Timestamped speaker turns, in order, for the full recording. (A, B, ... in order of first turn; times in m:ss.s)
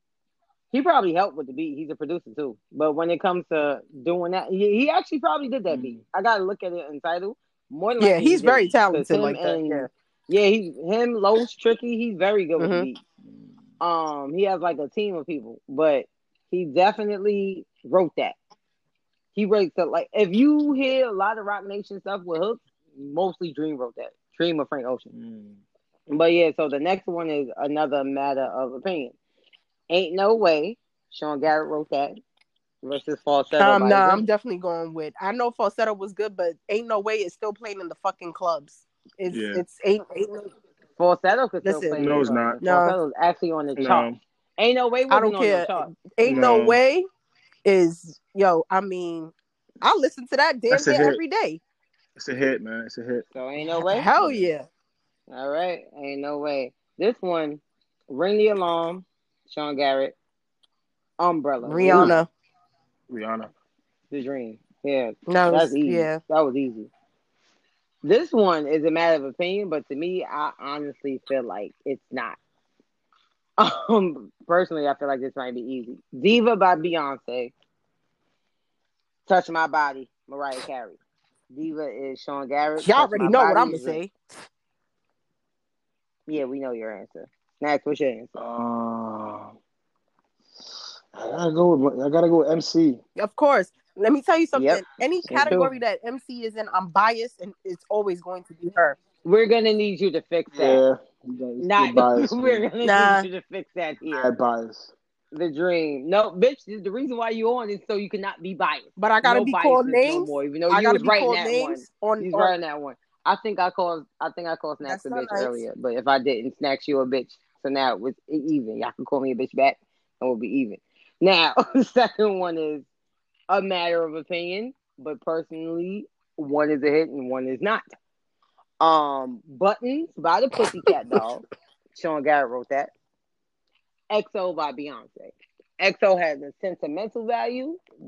0:00.7-0:13.0 A
0:05.7-0:06.0 B
0:08.0-0:09.9 C
0:12.6-0:12.9 C
0:13.8-0:18.4 A
0:19.3-0:25.1 A
0:25.1-0:25.6 B
0:26.1-0:29.2 A
0:29.9-0:32.2 A
0:32.8-0:34.2 A
0:33.6-0:40.5 C
0:39.3-0:39.6 B
0:41.0-0:45.9 A
0:41.6-0:42.0 C
0:42.0-0:42.6 B
0:42.6-0:43.0 C
0:43.8-0:44.2 B
0:45.1-0:47.0 C
0:46.2-0:46.8 B
0:47.6-0:51.6 C
0:50.7-0:51.2 B
0:52.2-0:53.2 B
0:53.3-0:54.1 A
0:53.8-0:54.7 C
0:54.2-0:54.5 B
0:55.3-1:00.2 A
1:01.2-1:02.1 A
1:01.6-1:02.3 C
1:01.8-1:02.1 B
1:03.1-1:03.5 B
1:04.1-1:06.9 A
1:05.3-1:06.2 C
1:08.0-1:12.4 A
1:13.6-1:17.5 A
1:19.2-1:21.0 A
1:21.5-1:24.0 A
1:22.8-1:24.1 C
1:26.3-1:28.3 A
1:28.4-1:29.5 B
1:31.1-1:33.0 B
1:33.2-1:39.0 C
1:34.6-1:35.7 A
1:35.3-1:35.6 B
1:39.2-1:40.8 A
1:40.5-1:42.7 B
1:41.6-1:44.3 A
1:42.8-1:43.3 C
1:44.1-1:44.9 B
1:45.3-2:02.8 A
1:49.0-1:52.5 C
1:54.8-1:55.6 C
2:03.5-2:07.8 A
2:08.8-2:12.9 A
2:14.1-2:17.8 A